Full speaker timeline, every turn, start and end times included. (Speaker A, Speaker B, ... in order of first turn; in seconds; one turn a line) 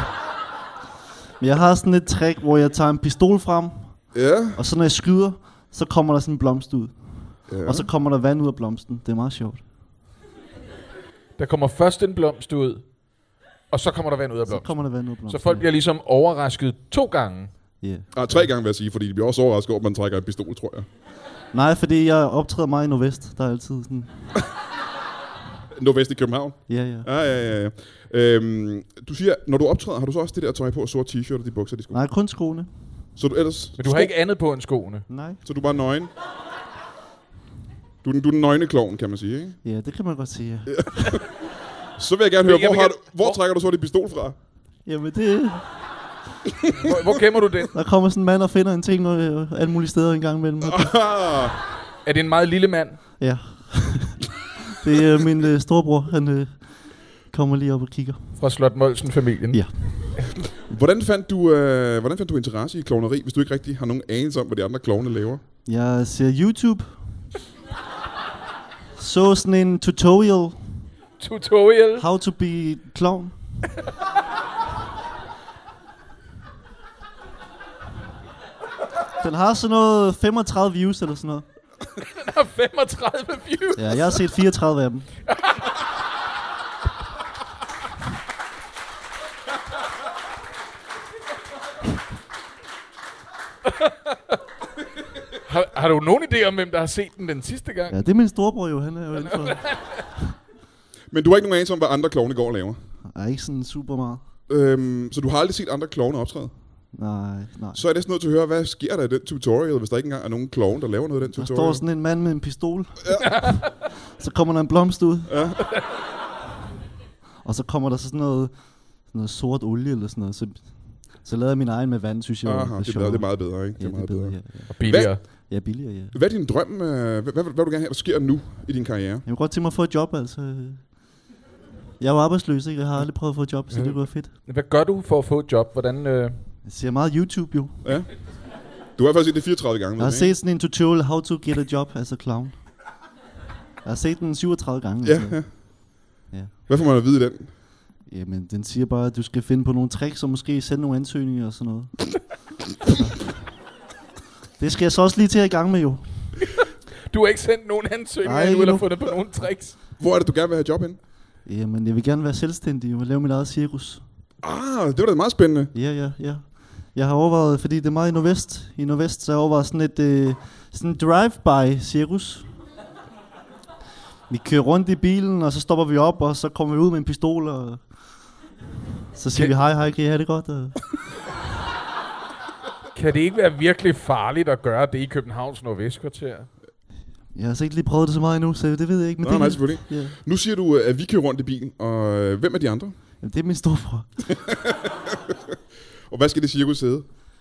Speaker A: 1.4-9.7
Speaker B: 4.1-4.6
Speaker B: 7.5-7.9
Speaker C: 11.4-12.9
Speaker C: 13.7-17.5
Speaker A: 14.5-15.7
Speaker A: 17.8-18.1
Speaker B: 18.1-20.9
Speaker A: 21.5-24.4
Speaker B: 25.7-32.0
Speaker A: 26.7-27.1
Speaker A: 31.9-32.7
Speaker B: 33.1-34.1
Speaker C: 33.8-35.1
Speaker A: 35.1-35.4
Speaker B: 35.4-36.1
Speaker B: 38.0-39.6
Speaker A: 39.6-41.2
Speaker B: 40.7-41.2
Speaker B: 42.0-44.4
Speaker C: 42.4-43.4
Speaker A: 44.8-45.7
Speaker C: 46.7-47.7
Speaker A: 47.7-51.0
Speaker B: 50.6-51.6
Speaker C: 52.0-53.0
Speaker A: 53.2-54.3
Speaker A: 54.8-56.7
Speaker A: 57.3-58.2
Speaker C: 58.4-59.6
Speaker A: 59.5-60.2
Speaker B: 60.6-65.4
Speaker A: 65.6-67.0
Speaker A: 69.0-70.8
Speaker C: 71.2-72.1
Speaker A: 72.0-73.3
Speaker A: 79.2-81.5
Speaker C: 82.0-84.2
Speaker A: 83.8-85.1
Speaker C: 85.3-85.7
Speaker C: 93.7-94.3
Speaker C: 95.4-98.0
Speaker A: 97.9-100.1
Speaker C: 99.2-100.0
Speaker B: 101.1-102.8
Speaker A: 103.1-104.2
Speaker B: 104.5-106.5
Speaker A: 106.9-107.8
Speaker B: 107.7-111.8
Speaker A: 111.3-115.5
Speaker C: 113.2-113.6
Speaker B: 115.3-115.6
Speaker A: 117.4-126.1
Speaker B: 122.4-125.2
Speaker C: 124.7-125.2
Speaker B: 126.1-129.2
Speaker A: 129.2-130.9
Speaker A: 132.0-134.3
Speaker C: 134.4-136.4
Speaker A: 136.6-137.8
Speaker B: 137.8-138.1
Speaker B: 139.0-140.3
Speaker A: 140.0-142.6
Speaker A: 143.8-145.6
Speaker B: 145.0-145.5
Speaker B: 146.7-147.5
Speaker A: 148.1-152.1
Speaker A: 152.8-153.2
Speaker A: 154.6-156.3
Speaker C: 157.1-159.8
Speaker A: 158.2-159.0
Speaker B: 160.0-161.0
Speaker A: 161.4-164.0
Speaker B: 164.4-165.7
Speaker A: 165.7-172.5
Speaker A: 174.3-177.8
Speaker A: 179.1-180.8
Speaker C: 182.9-186.5
Speaker A: 187.3-190.2
Speaker B: 189.2-192.9
Speaker A: 193.2-194.5
Speaker B: 194.5-195.4
Speaker B: 196.1-197.1